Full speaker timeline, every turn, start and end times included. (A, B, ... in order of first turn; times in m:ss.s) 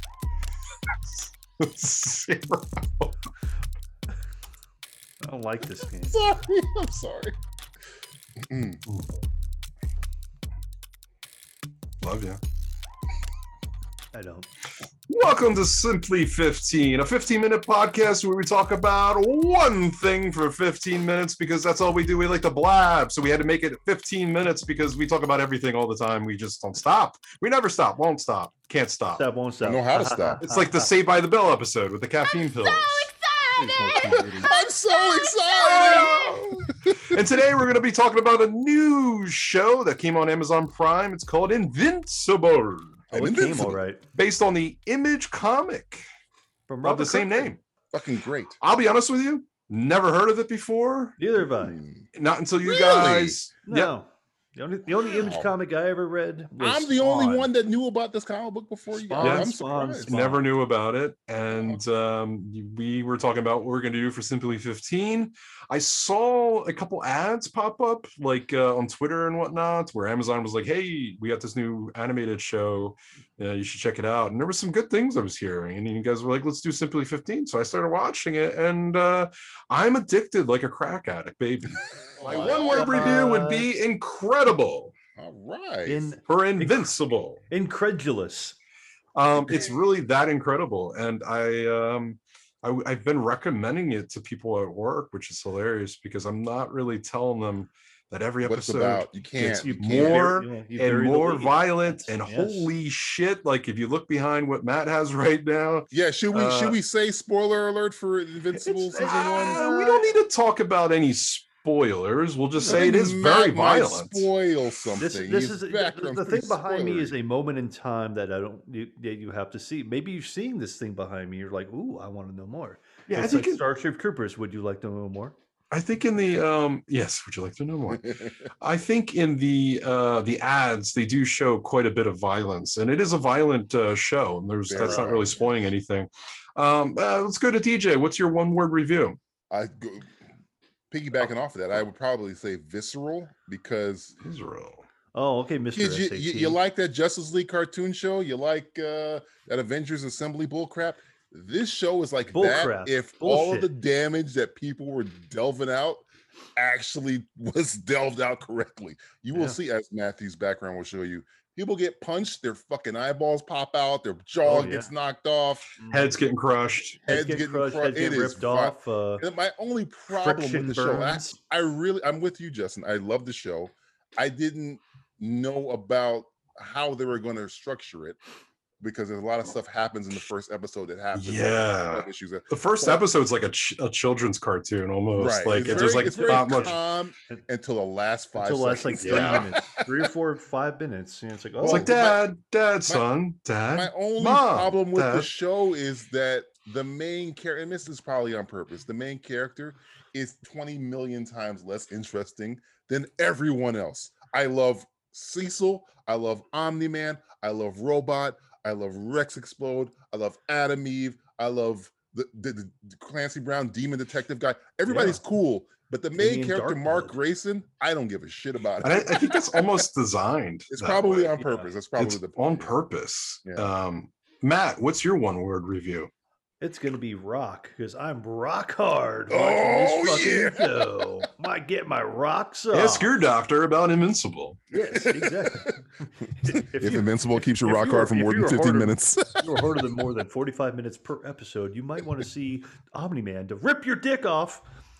0:00.9-0:03.1 A
0:05.2-0:06.2 B
0:06.0-0:07.3 C
0:08.5-0:08.8 C
0:12.0-0:12.4 A
0:14.1-0:14.5 B
0:15.1-0:29.2 A
0:29.1-0:30.9 B
0:29.6-0:30.4 C
0:30.4-0:33.1 A
0:32.6-0:33.3 C
0:33.6-0:34.5 B
0:33.9-0:37.2 C
0:35.5-0:43.0 A
0:43.1-0:43.8 C
0:43.1-0:44.0 B
0:44.1-0:46.0 A
0:46.7-0:47.5 B
0:46.8-0:47.6 A
0:47.9-0:48.6 C
0:48.6-0:51.2 A
0:51.2-0:51.8 B
0:51.4-0:52.1 C
0:52.1-0:53.9 A
0:52.6-0:53.4 C
0:53.6-0:57.5 B
0:55.0-0:55.5 C
0:56.6-1:00.1 C
0:58.9-1:00.5 B
0:59.2-0:59.5 A
1:00.0-1:24.9 A
1:01.5-1:01.8 C
1:22.2-1:23.3 C
1:22.3-1:23.7 B
1:25.2-1:26.2 C
1:25.8-1:28.6 B
1:26.2-1:27.4 A
1:29.1-1:46.8 A
1:38.4-1:40.3 C
1:39.5-1:42.7 B
1:45.9-1:49.6 C
1:48.5-1:50.2 B
1:49.0-1:54.3 A
1:52.6-1:52.9 B
1:52.6-1:57.1 C
1:55.0-2:05.3 B
2:03.1-2:03.6 A
2:05.7-2:19.2 A
2:07.9-2:08.3 C
2:14.7-2:15.7 C
2:14.7-2:15.1 B
2:19.5-2:20.1 C
2:20.9-2:24.2 C
2:24.2-2:24.8 A
2:25.1-2:26.6 B
2:25.7-2:45.7 C
2:32.3-2:33.7 B
2:44.4-2:44.9 B
2:45.8-2:46.2 B
2:45.9-2:47.0 A
2:47.0-2:49.2 B
2:47.0-2:58.2 C
2:50.1-2:51.4 B
2:58.8-3:03.0 C
3:01.1-3:06.7 A
3:05.1-3:09.8 C
3:05.5-3:07.4 B
3:08.4-3:11.9 B
3:09.0-3:09.4 A
3:11.6-3:12.3 C
3:11.6-3:15.3 A
3:13.7-3:39.8 C
3:34.9-3:35.2 B
3:36.2-3:37.2 B
3:38.8-3:41.3 A
3:40.7-3:42.7 C
3:41.4-3:41.7 B
3:42.0-3:46.1 A
3:43.4-3:43.7 C
3:46.6-3:53.2 B
3:49.3-3:50.8 C
3:52.7-3:54.6 A
3:54.7-4:04.6 B
3:54.7-3:55.7 C
3:56.4-3:59.6 C